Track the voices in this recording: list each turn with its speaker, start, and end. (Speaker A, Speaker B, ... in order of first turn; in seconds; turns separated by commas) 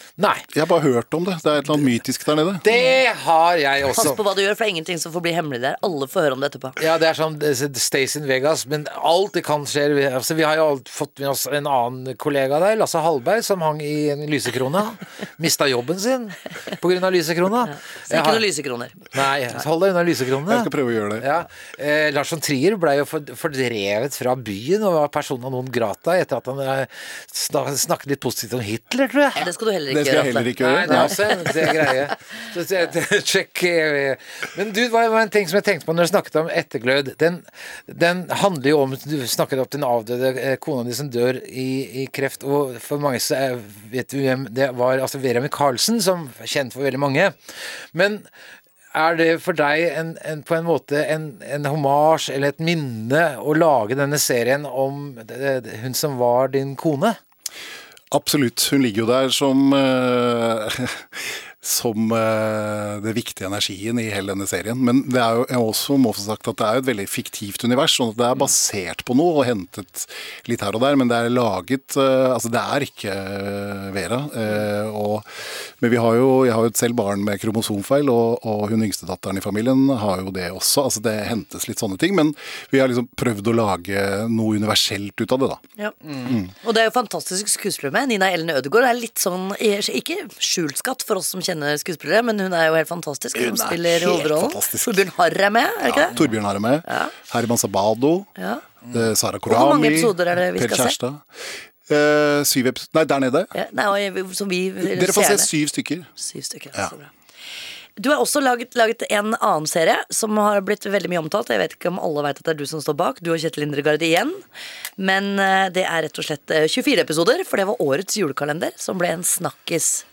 Speaker A: 0.2-0.5, Speaker B: 0.5-2.6, Speaker A: 2.6-4.2, Speaker C: 3.9-6.8, Speaker A: 6.8-18.4, Speaker C: 17.7-19.0, Speaker A: 19.1-29.5, Speaker B: 20.5-21.3, Speaker C: 29.4-31.7, Speaker B: 29.9-31.5, Speaker A: 30.6-47.4, Speaker A: 47.9-48.3, Speaker A: 48.9-57.2, Speaker B: 58.1-75.2, Speaker B: 75.8-85.6, Speaker B: 86.2-86.5, Speaker C: 86.5-96.2, Speaker B: 93.3-95.0, Speaker B: 95.8-98.3, Speaker C: 96.9-97.1, Speaker C: 98.4-98.6, Speaker B: 98.9-101.3, Speaker C: 99.5-101.0, Speaker B: 101.9-103.5, Speaker C: 103.5-105.5, Speaker B: 104.8-106.1, Speaker C: 106.2-107.1, Speaker C: 108.0-114.4, Speaker C: 115.0-120.0